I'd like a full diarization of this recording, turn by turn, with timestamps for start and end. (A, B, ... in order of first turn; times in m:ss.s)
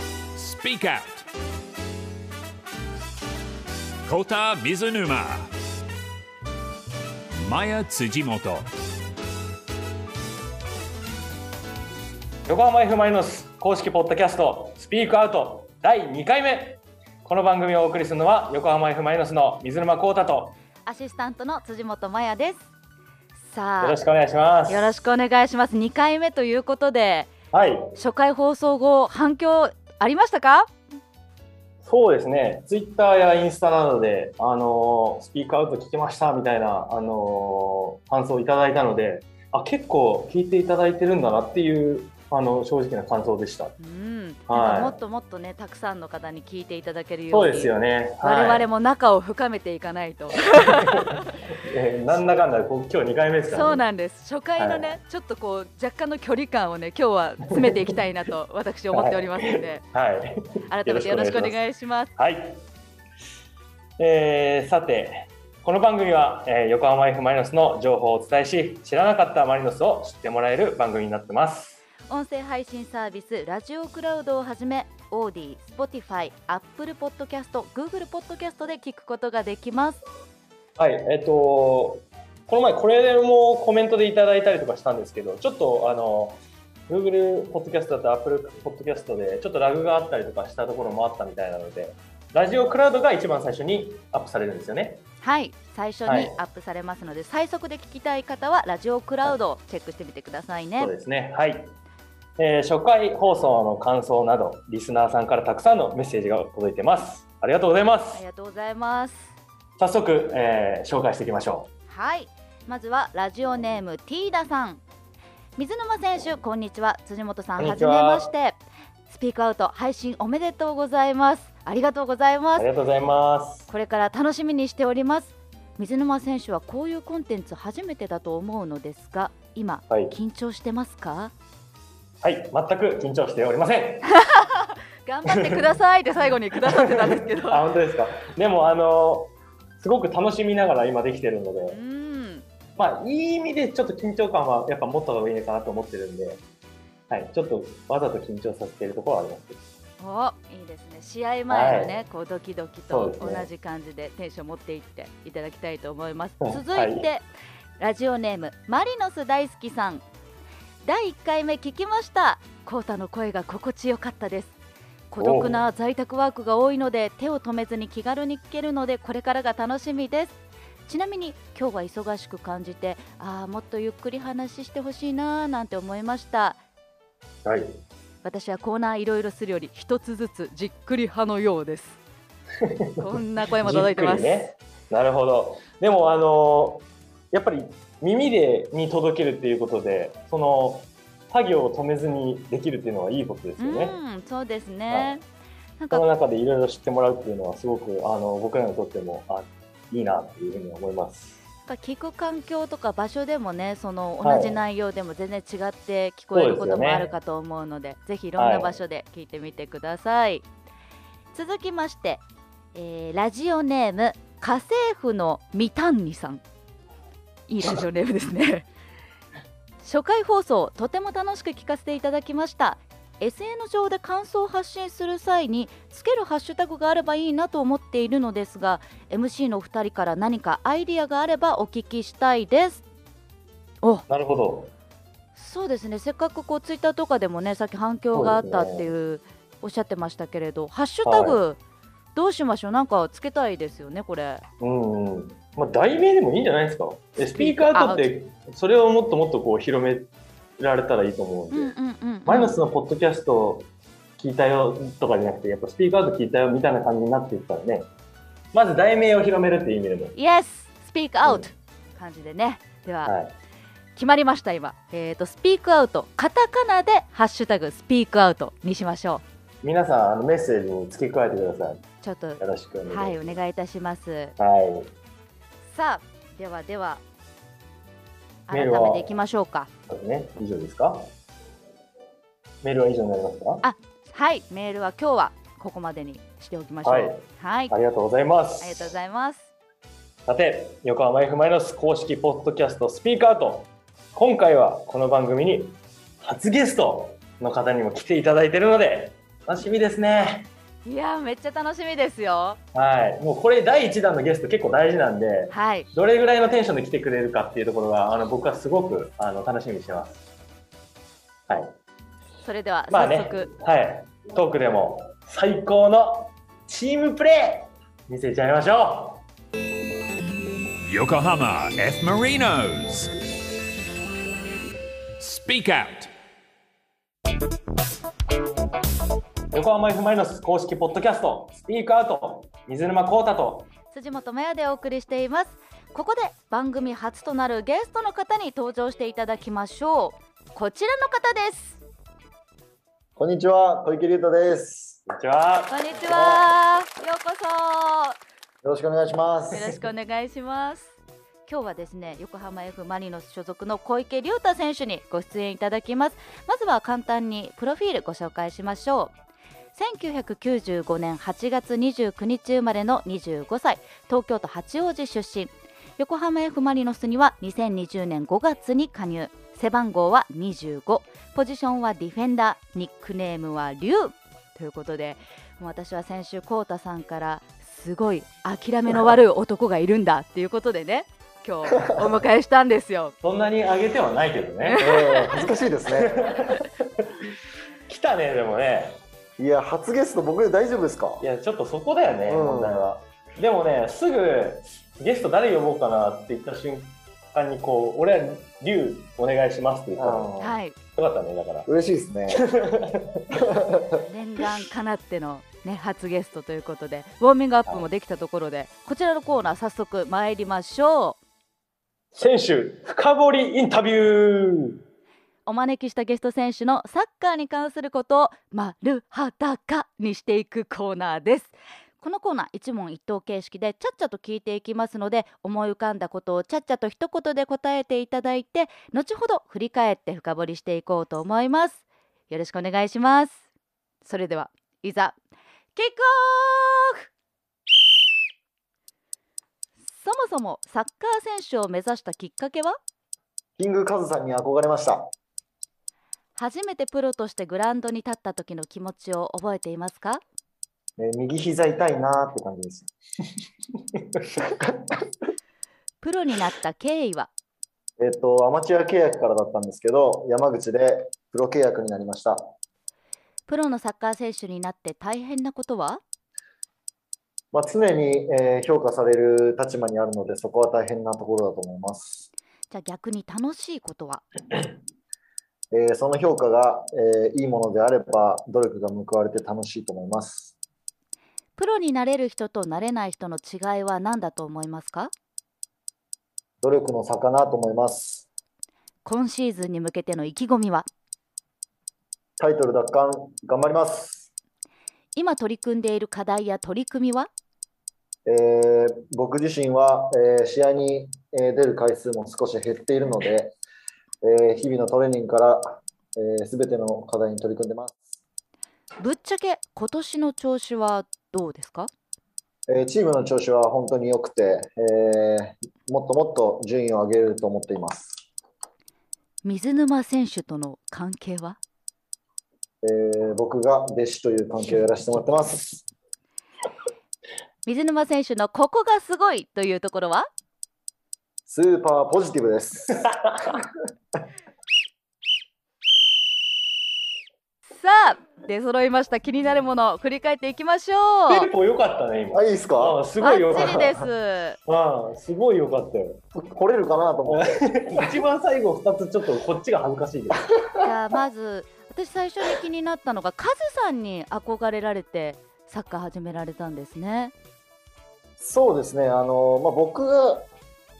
0:00.3-0:01.3 A
0:04.0-0:05.5 A
0:07.4-0:08.7 A
0:12.5-0:20.6 B
0:20.8-0:22.7 C
0:23.4-0:24.0 C
0:23.8-0:24.9 B
0:24.7-0:27.3 C
0:27.5-0:27.9 B
0:27.9-0:30.7 C
0:31.8-0:43.7 B
0:43.8-0:51.3 C
0:44.5-0:44.9 B
0:47.3-0:48.7 B
0:50.6-0:53.8 B
0:53.5-0:59.8 C
0:54.6-0:55.0 B
0:57.5-0:57.9 B
0:58.9-1:01.6 B
1:00.7-1:02.1 C
1:02.2-1:02.6 B
1:04.0-1:11.8 B
1:12.1-1:20.0 C
1:20.8-1:35.0 B
1:35.2-1:40.9 C
1:36.0-1:36.4 B
1:40.8-1:41.7 B
1:42.4-1:48.2 B
1:48.1-1:49.3 C
1:49.8-1:51.7 B
1:51.9-1:54.8 C
1:55.6-2:02.7 C
1:57.6-1:58.3 B
2:02.6-2:03.7 B
2:03.7-2:11.3 C
2:09.9-2:10.2 B
2:12.2-2:14.1 B
2:14.1-2:17.6 C
2:15.2-2:15.7 B
2:16.6-2:21.8 B
2:21.7-2:22.4 C
2:22.8-2:26.4 B
2:27.1-2:29.6 B
2:30.0-2:37.2 C
2:31.5-2:31.9 B
2:32.9-2:33.5 B
2:36.4-2:37.1 B
2:37.8-2:40.0 C
2:40.8-2:44.5 C
2:45.1-2:56.6 C
2:45.2-2:45.6 B
2:57.4-2:57.8 B
2:58.2-3:02.0 C
3:02.6-3:14.0 B
3:03.0-3:04.3 C
3:13.6-3:15.2 C
3:14.9-3:15.2 B
3:15.8-3:16.0 C
3:15.9-3:21.4 B
3:21.7-3:30.4 C
3:24.2-3:24.6 B
3:26.3-3:27.1 B
3:28.4-3:28.8 B
3:31.3-3:32.2 C
3:32.7-3:36.4 C
3:37.5-3:38.6 C
3:39.8-3:52.8 C
3:54.1-3:54.7 B
3:55.4-4:01.6 C
3:58.1-3:58.9 B
4:01.0-4:01.4 B
4:02.1-4:04.4 C
4:04.6-4:17.9 B
4:07.2-4:08.1 C
4:11.5-4:12.6 C
4:18.5-4:20.2 B
4:20.1-4:23.1 C
4:23.0-4:23.3 B
4:24.0-4:29.2 C
4:29.6-4:31.8 B
4:32.0-4:34.3 C
4:32.4-4:33.4 B
4:34.4-4:34.9 B
4:35.7-4:37.0 C
4:38.5-4:39.7 C
4:38.5-4:39.1 B
4:39.9-4:41.1 B
4:42.6-4:43.6 B
4:43.6-4:47.7 C
4:46.8-4:48.9 B
4:48.6-4:49.5 C
4:50.3-5:00.5 B
5:00.8-5:02.6 C
5:02.7-5:10.2 B
5:05.5-5:05.9 C
5:11.5-5:11.7 B
5:12.4-5:13.5 C
5:12.9-5:19.2 B
5:20.8-5:23.1 A
5:25.2-5:26.1 A
5:29.5-5:33.7 B
5:33.9-5:41.8 C
5:43.2-5:45.0 D
5:45.1-5:45.8 B
5:45.7-5:48.2 C
5:46.1-5:46.4 D
5:48.6-5:49.7 D
5:49.5-5:50.9 C
5:51.4-5:59.1 C
5:59.8-6:23.1 C
6:23.2-6:24.8 B
6:24.7-6:25.4 C
6:24.8-6:26.6 D
6:25.9-6:27.2 B
6:27.9-6:29.0 B
6:29.4-6:31.2 D
6:31.2-6:40.3 B
6:32.3-6:32.9 D
6:40.0-6:40.6 D
6:40.4-6:40.8 C
6:41.0-6:41.7 B
6:41.7-6:42.4 D
6:42.3-6:43.2 B
6:43.3-6:44.0 D
6:44.0-6:51.2 C
6:52.1-6:54.8 B
6:55.4-7:13.4 C
7:14.0-7:15.2 C
7:15.8-7:17.0 C
7:19.9-7:22.8 C
7:23.6-7:25.1 D
7:26.4-7:30.2 C
7:31.0-7:32.9 D
7:34.5-7:35.0 D
7:36.0-7:37.3 C
7:38.0-7:42.5 D
7:43.5-7:46.0 C
7:47.5-7:52.3 D
7:52.7-7:54.2 C
7:55.7-8:00.5 D
8:01.6-8:05.1 C
8:06.6-8:08.2 D
8:09.0-8:10.9 C
8:12.4-8:14.3 D
8:15.1-8:17.3 C
8:18.2-8:23.5 D
8:24.2-8:28.2 D
8:29.0-8:31.9 C
8:32.7-8:38.2 D
8:39.4-8:41.6 C
8:42.8-8:45.9 D
8:47.6-8:50.3 C
8:51.5-8:53.6 D
8:57.7-9:01.5 C
9:01.3-9:03.9 B
9:02.3-9:04.0 D
9:03.2-9:04.6 C
9:04.6-9:06.2 B
9:06.3-9:08.1 D
9:07.3-9:10.5 B
9:10.8-9:17.3 C
9:18.4-9:20.5 D